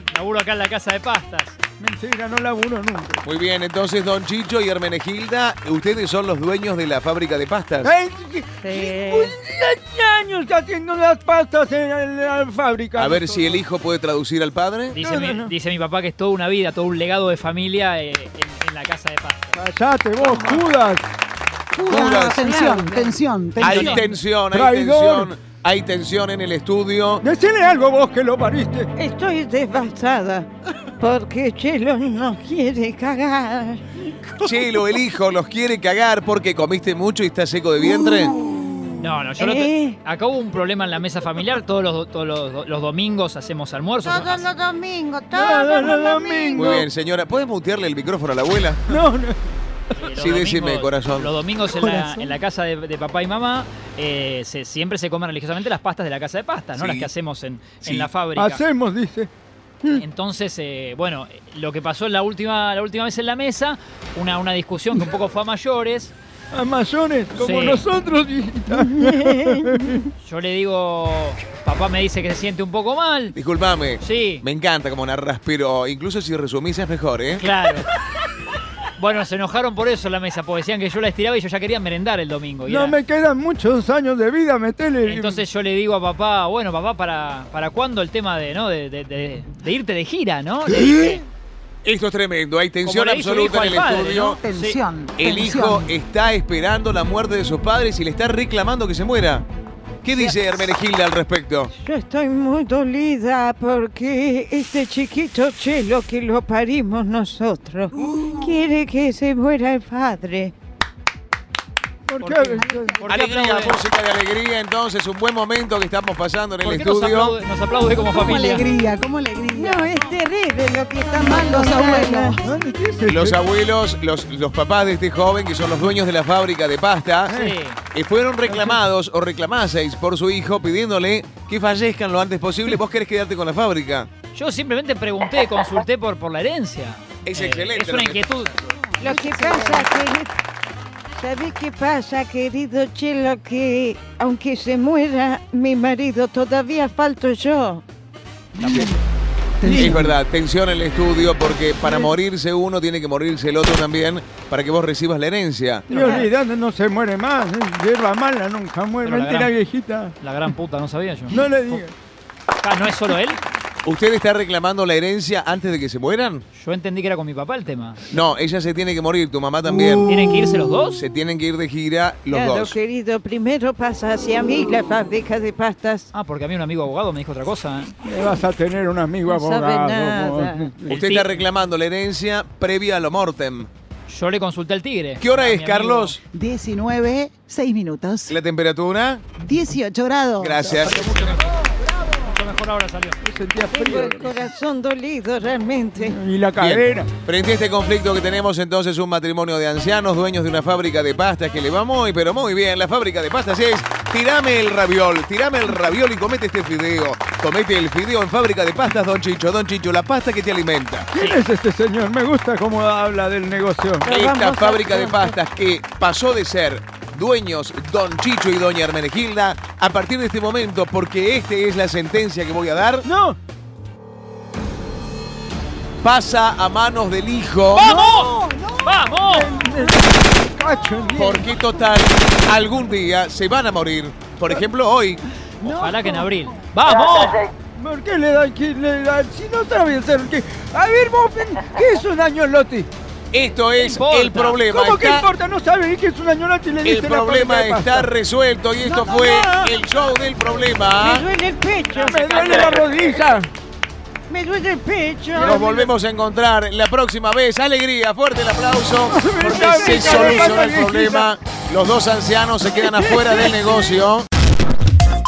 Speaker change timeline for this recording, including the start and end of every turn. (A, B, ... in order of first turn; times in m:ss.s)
0:00.1-0:01.6 A
0:01.8-0:03.2 B
0:03.2-0:07.9 C
0:07.8-0:13.6 B
0:08.6-0:09.4 D
0:13.0-0:15.0 C
0:14.9-0:19.6 A
0:15.0-0:15.5 B
0:19.6-0:21.0 B
0:20.2-0:20.6 A
0:21.7-0:23.9 E
0:21.8-0:23.2 D
0:21.9-0:22.5 C
0:23.6-0:27.2 C
0:23.6-0:24.1 A
0:23.9-0:25.3 B
0:27.2-0:28.9 B
0:29.0-0:33.8 D
0:34.4-0:38.4 C
0:39.0-0:44.5 A
0:39.4-0:40.0 D
0:44.0-0:46.8 D
0:45.3-0:46.8 B
0:46.5-0:48.8 C
0:48.9-0:50.1 B
0:50.0-0:58.6 A
0:50.2-0:51.3 C
0:51.8-0:52.3 B
0:56.8-0:57.1 C
0:57.8-0:58.1 C
0:58.4-0:59.3 B
0:59.9-1:06.1 A
1:06.5-1:10.0 B
1:07.4-1:07.8 A
1:08.8-1:10.0 D
1:10.2-1:13.4 A
1:13.3-1:17.4 C
1:14.0-1:14.4 A
1:17.4-1:17.9 A
1:19.0-1:23.0 A
1:22.7-1:25.4 B
1:25.1-1:31.2 A
1:30.8-1:31.2 B
1:31.8-1:34.4 C
1:32.8-1:34.8 A
1:34.2-1:35.9 E
1:35.2-1:39.5 C
1:40.0-1:41.7 C
1:41.7-1:50.6 D
1:52.1-1:53.1 B
1:52.2-1:53.8 A
1:52.6-1:53.0 E
1:53.1-1:57.4 C
1:56.6-1:58.7 A
1:58.1-2:00.0 E
1:59.5-2:02.4 D
2:01.0-2:02.5 E
2:02.4-2:03.4 B
2:03.1-2:07.3 C
2:07.3-2:07.6 B
2:07.3-2:07.8 A
2:07.9-2:14.1 C
2:08.5-2:08.8 B
2:14.3-2:18.6 A
2:17.2-2:18.3 C
2:18.8-2:20.1 E
2:19.0-2:20.3 D
2:21.1-2:27.8 D
2:28.6-2:28.9 A
2:28.7-2:28.9 E
2:29.6-2:30.2 E
2:29.7-2:30.0 B
2:29.8-2:35.9 C
2:31.8-2:32.1 B
2:35.9-2:36.3 A
2:35.9-2:40.2 B
2:39.0-2:39.5 A
2:40.2-2:41.8 A
2:41.3-2:41.9 B
2:42.6-2:43.4 A
2:43.8-2:46.4 C
2:46.5-2:48.1 A
2:48.1-2:50.1 C
2:50.0-2:51.0 A
2:50.9-2:52.8 C
2:52.3-2:56.1 D
2:56.1-2:57.9 A
2:58.0-3:01.0 B
2:59.3-3:00.7 D
3:00.9-3:01.5 A
3:00.9-3:03.7 C
3:04.1-3:06.2 A
3:05.2-3:06.2 C
3:06.3-3:08.4 E
3:08.3-3:09.3 C
3:09.4-3:10.8 E
3:10.4-3:11.2 C
3:10.8-3:13.2 A
3:13.2-3:14.4 B
3:13.7-3:16.2 D
3:16.0-3:17.1 B
3:16.6-3:31.1 C
3:31.1-3:34.1 B
3:34.0-3:35.4 D
3:34.1-3:43.1 C
3:43.0-3:43.4 B
3:46.0-3:47.9 C
3:47.8-3:49.5 A
3:47.8-3:48.5 B
3:49.2-3:51.5 B
3:51.2-3:55.2 C
3:55.6-3:57.5 A
3:55.6-3:56.2 B
3:57.8-4:02.9 B
4:03.3-4:05.3 C
4:03.8-4:04.6 A
4:04.6-4:08.1 B
4:06.8-4:11.2 C
4:08.9-4:09.7 B
4:11.0-4:12.8 D
4:11.9-4:12.9 A
4:12.0-4:13.5 B
4:14.3-4:15.6 D
4:15.3-4:15.9 B
4:15.4-4:24.3 C
4:19.1-4:21.3 B
4:22.8-4:23.8 B